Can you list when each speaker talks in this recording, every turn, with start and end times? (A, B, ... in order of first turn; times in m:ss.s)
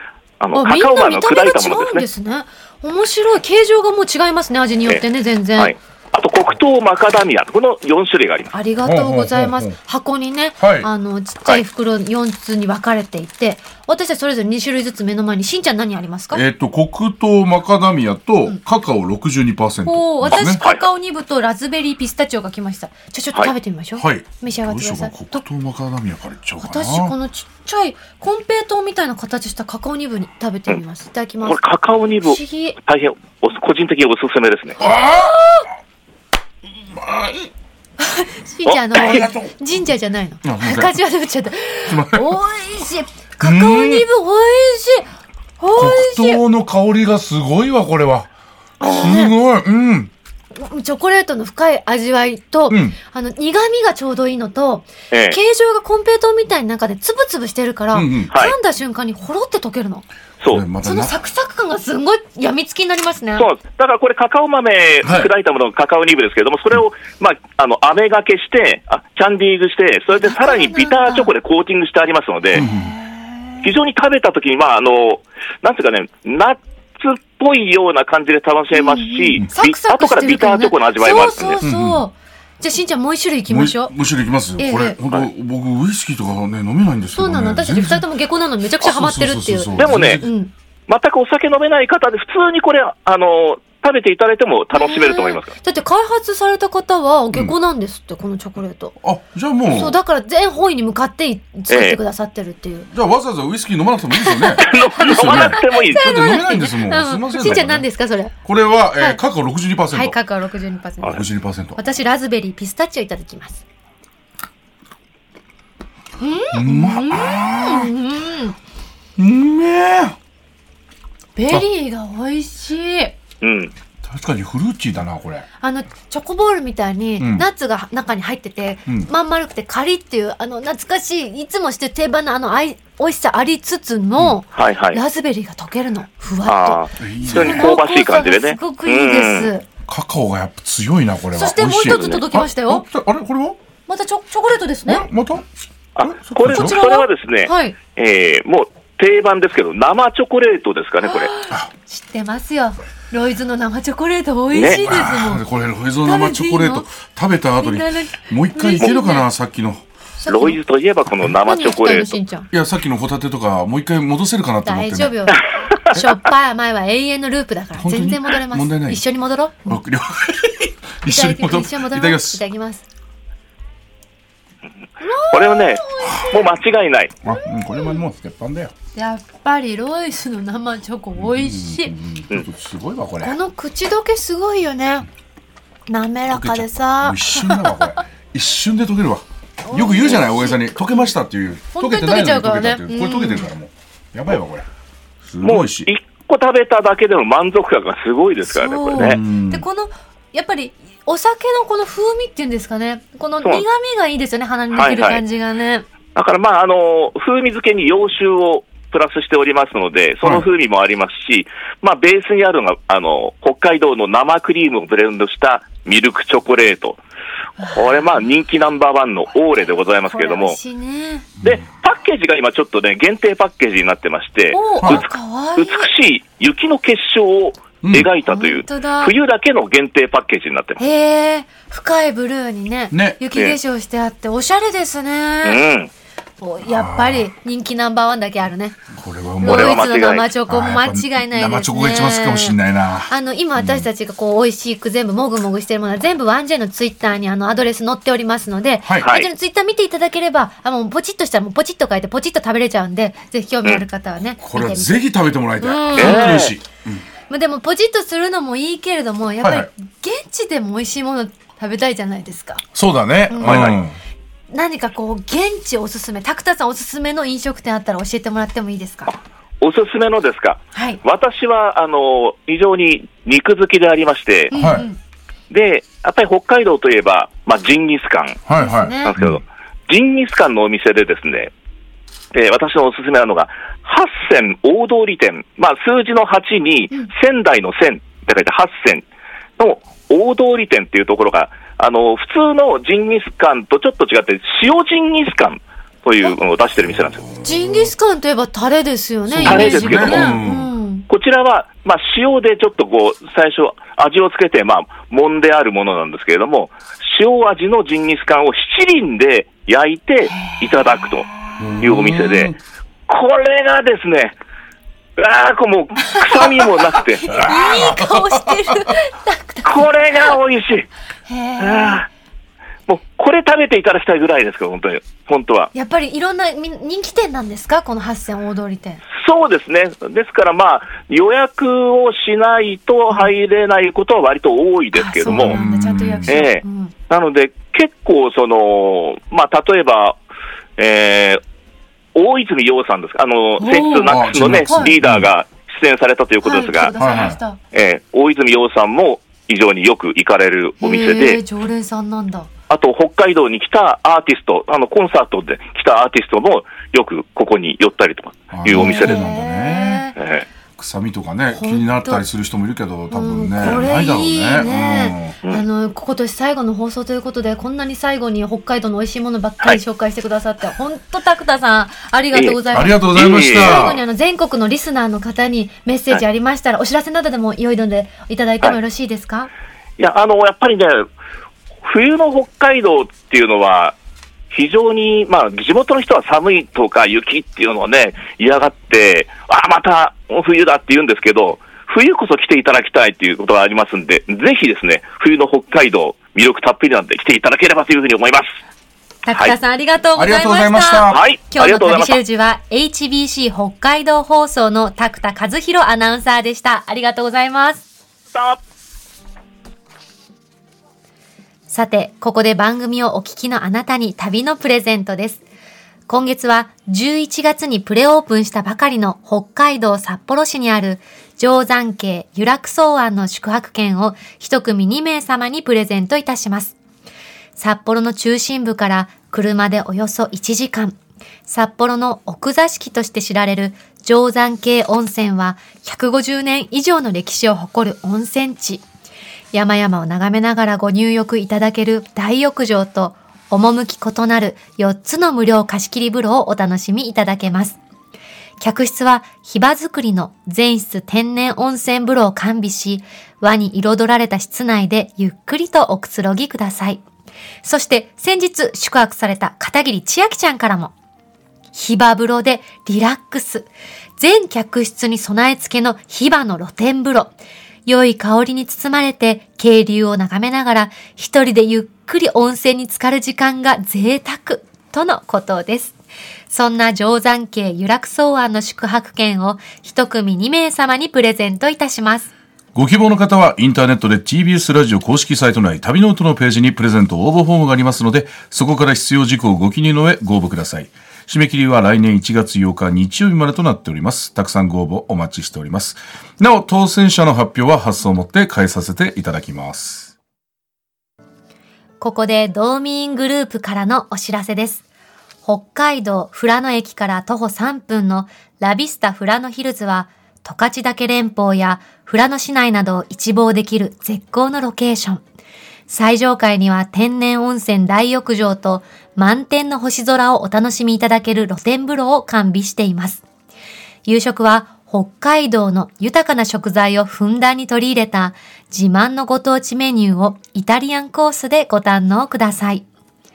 0:00.4-0:02.1 A
0:00.6-0:05.8 B
0:05.6-0:08.5 A
0:08.5-0:16.4 B
0:08.8-0:09.8 C
0:10.6-0:10.9 C
0:16.3-0:20.6 C
0:19.8-0:25.4 B
0:20.3-0:20.8 A
0:24.0-0:27.2 C
0:26.6-0:31.6 B
0:31.4-0:34.8 A
0:32.2-0:32.8 B
0:34.8-0:35.5 C
0:34.8-0:35.7 B
0:36.7-0:37.5 C
0:38.0-0:45.1 B
0:38.7-0:39.2 A
0:38.9-0:39.5 C
0:40.4-0:41.0 C
0:41.9-0:42.4 C
0:43.4-0:44.1 C
0:45.6-0:46.4 B
0:45.8-0:48.3 C
0:48.8-0:49.4 B
0:48.9-0:50.1 C
0:50.6-1:00.1 B
0:52.7-0:53.0 C
0:55.1-0:55.4 A
0:57.9-0:58.3 C
1:00.4-1:00.6 A
1:00.5-1:01.2 C
1:00.8-1:03.5 B
1:03.4-1:12.7 A
1:05.0-1:05.3 C
1:10.1-1:11.3 B
1:12.5-1:12.9 C
1:12.6-1:13.7 B
1:13.6-1:21.6 A
1:18.7-1:23.9 B
1:21.6-1:22.1 C
1:23.5-1:28.1 C
1:24.6-1:25.0 B
1:27.1-1:30.5 B
1:28.8-1:30.3 C
1:29.8-1:30.2 A
1:30.9-1:35.5 A
1:34.7-1:39.0 B
1:39.0-1:40.0 C
1:39.7-1:42.9 B
1:41.7-1:42.0 A
1:42.9-1:47.9 C
1:44.2-1:48.4 B
1:44.6-1:46.2 A
1:48.4-1:50.2 C
1:49.9-1:51.2 B
1:51.0-1:51.8 C
1:51.8-1:53.6 B
1:56.2-1:58.6 B
1:56.5-1:57.9 C
1:59.2-2:00.2 C
2:01.4-2:03.2 B
2:03.4-2:03.7 A
2:04.0-2:05.5 C
2:05.6-2:19.7 B
2:07.2-2:07.5 C
2:14.5-2:15.0 A
2:16.4-2:19.5 A
2:17.0-2:17.8 C
2:19.9-2:23.6 C
2:21.3-2:22.8 B
2:21.8-2:22.2 A
2:23.9-2:25.1 B
2:24.9-2:25.5 C
2:26.0-2:31.3 A
2:26.0-2:26.8 C
2:26.4-2:27.8 B
2:31.0-2:35.4 B
2:34.5-2:34.9 A
2:34.7-2:39.8 C
2:36.0-2:36.9 B
2:37.6-2:39.3 B
2:40.2-2:40.6 B
2:40.3-2:42.2 A
2:41.4-2:42.5 B
2:42.5-2:45.4 C
2:44.6-2:49.8 B
2:45.4-2:46.0 A
2:47.8-2:49.0 C
2:49.7-2:52.4 C
2:51.0-2:52.8 B
2:55.0-2:56.5 B
2:55.3-2:57.2 A
2:56.0-2:56.3 C
2:57.2-2:58.7 C
2:57.3-2:58.0 B
2:59.0-3:01.9 B
3:01.2-3:03.4 C
3:03.2-3:05.1 B
3:05.9-3:07.9 B
3:06.3-3:14.7 C
3:09.7-3:10.6 B
3:11.7-3:13.5 B
3:15.2-3:15.9 C
3:15.4-3:19.2 A
3:18.5-3:25.9 B
3:19.0-3:19.7 C
3:24.7-3:25.2 A
3:26.2-3:37.0 A
3:37.6-3:38.1 B
3:37.7-3:40.6 A
3:40.1-3:41.3 B
3:41.4-3:50.8 A
3:44.5-3:45.9 B
3:47.8-3:48.1 C
3:48.2-3:49.2 B
3:50.8-3:55.6 B
3:52.9-3:53.2 C
3:55.4-3:55.9 A
3:56.4-3:58.8 B
3:56.6-3:57.3 C
3:58.9-3:59.9 C
3:59.4-4:02.6 B
3:59.4-4:00.3 A
4:00.5-4:03.9 C
4:03.1-4:16.5 B
4:08.8-4:09.1 C
4:09.0-4:09.3 A
4:14.4-4:17.0 C
4:16.0-4:16.6 A
4:17.3-4:22.6 B
4:19.4-4:19.7 C
4:22.7-4:24.0 C
4:23.3-4:23.8 B
4:23.4-4:23.7 A
4:24.5-4:29.1 B
4:29.6-4:34.5 A
4:30.7-4:31.0 B
4:34.5-4:35.0 B
4:34.5-4:34.9 C
4:35.5-4:38.4 A
4:38.5-4:39.4 C
4:38.6-4:39.2 B
4:39.0-4:41.5 A
4:42.3-4:49.0 A
4:49.6-4:57.3 A
4:57.4-5:01.1 B
4:57.5-4:57.9 C
4:59.3-5:00.7 C
4:59.4-5:00.4 A
5:01.1-5:11.3 A
5:10.3-5:11.7 B
5:11.6-5:12.6 C
5:11.8-5:12.6 A
5:13.1-5:14.4 A
5:15.2-5:17.3 A
5:16.0-5:20.4 B
5:17.3-5:18.8 C
5:19.6-5:20.9 A
5:21.3-5:22.1 B
5:21.6-5:22.1 A
5:22.9-5:25.7 A
5:25.7-5:29.0 B
5:29.1-5:35.6 A
5:34.9-5:36.9 B
5:35.3-5:36.4 C
5:36.3-5:40.2 A
5:40.8-5:41.4 A
5:42.2-5:47.1 A
5:43.6-5:45.0 B
5:44.1-5:45.3 C
5:46.4-5:47.6 B
5:47.0-5:47.4 C
5:47.7-5:51.4 A
5:50.8-5:52.5 B
5:52.7-5:59.2 A
5:58.5-6:00.0 C
5:58.7-6:00.2 B
6:00.2-6:00.5 A
6:00.8-6:05.4 C
6:01.5-6:02.2 B
6:03.1-6:19.5 B
6:12.3-6:13.9 A
6:12.7-6:14.0 C
6:20.0-6:21.1 A
6:21.8-6:24.0 A
6:24.5-6:38.5 A
6:39.2-6:47.9 B
6:40.2-6:41.3 C
6:41.1-6:42.2 A
6:48.3-6:48.6 A
6:51.7-6:55.4 B
6:56.1-7:06.8 B
7:07.6-7:18.8 B
7:19.5-7:27.8 B
7:28.6-7:37.0 B
7:37.6-7:40.9 B
7:41.7-7:47.3 B
7:47.9-7:56.0 B
7:56.5-8:02.3 B
8:02.8-8:20.1 C
8:22.0-8:24.8 B
8:25.4-8:35.2 B
8:35.9-8:43.2 B
8:44.1-8:52.9 B